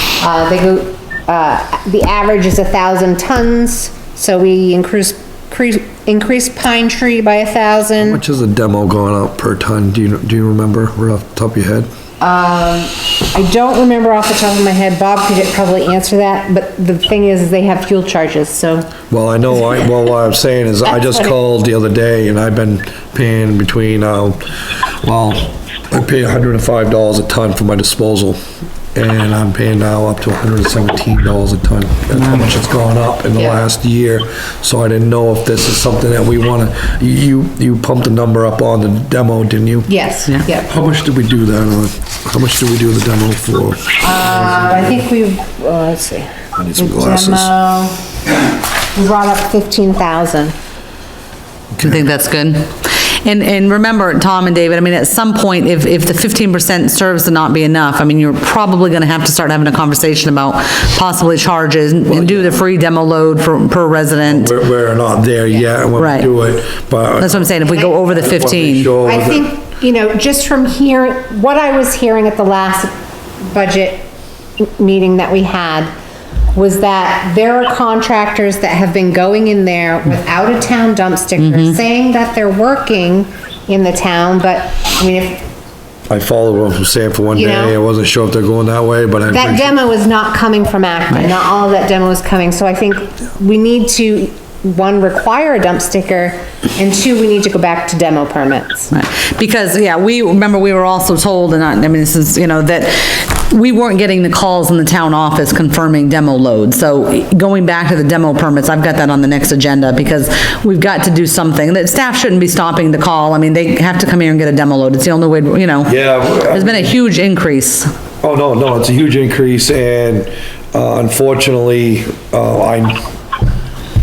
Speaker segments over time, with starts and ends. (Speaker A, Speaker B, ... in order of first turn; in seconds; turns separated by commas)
Speaker A: 0.2-8.2, Speaker B: 8.0-11.9, Speaker A: 12.2-18.9, Speaker B: 19.1-24.4, Speaker B: 25.0-28.4, Speaker B: 28.9-39.9, Speaker A: 33.4-33.6, Speaker A: 39.9-40.7, Speaker B: 40.7-45.0, Speaker A: 44.0-48.1, Speaker B: 46.5-47.5, Speaker A: 48.9-50.5, Speaker C: 51.8-64.5, Speaker B: 62.1-62.6, Speaker B: 64.2-69.5, Speaker C: 66.0-66.3, Speaker C: 67.2-68.9, Speaker A: 69.0-74.1, Speaker A: 74.6-75.9, Speaker A: 76.5-85.5, Speaker C: 81.4-81.8, Speaker B: 86.1-89.7, Speaker A: 87.3-87.8, Speaker A: 89.3-98.9, Speaker C: 98.9-115.9, Speaker B: 115.8-116.9, Speaker C: 116.5-117.9, Speaker B: 118.2-123.0